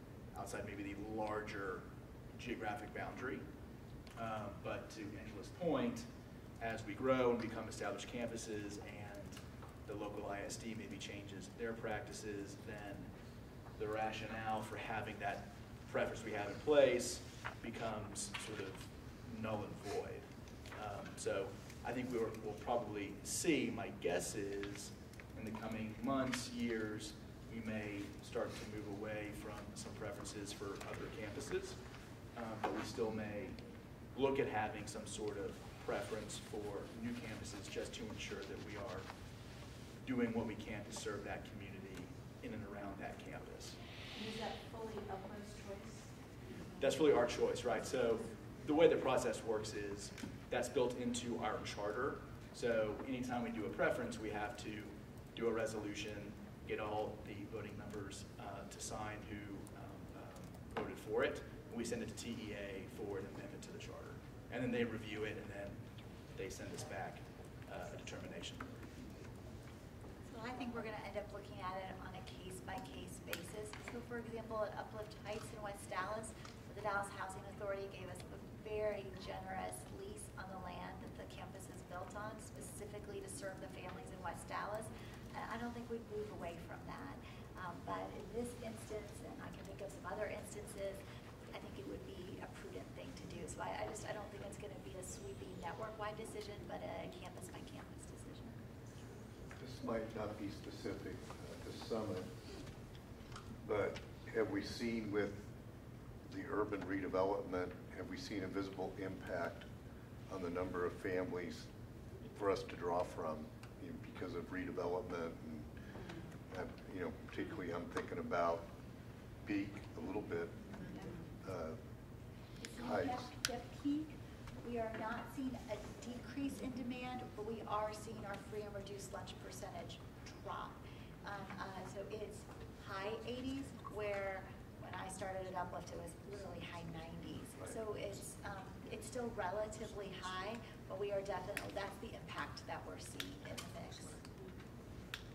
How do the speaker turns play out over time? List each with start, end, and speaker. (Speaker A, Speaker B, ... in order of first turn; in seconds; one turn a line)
Speaker A: 0.3-3.5
Speaker A: 4.1-13.1
Speaker A: 13.7-31.8
Speaker A: 32.3-39.1
Speaker A: 40.0-43.8
Speaker B: 44.1-46.6
Speaker A: 46.8-69.0
Speaker C: 70.2-98.8
Speaker D: 99.5-102.4
Speaker D: 103.6-105.5
Speaker D: 106.3-109.7
Speaker D: 110.3-111.7
Speaker D: 112.3-115.8
Speaker D: 116.5-118.7
Speaker D: 119.4-120.7
Speaker D: 121.4-121.8
Speaker C: 122.6-144.2
Speaker D: 122.8-123.3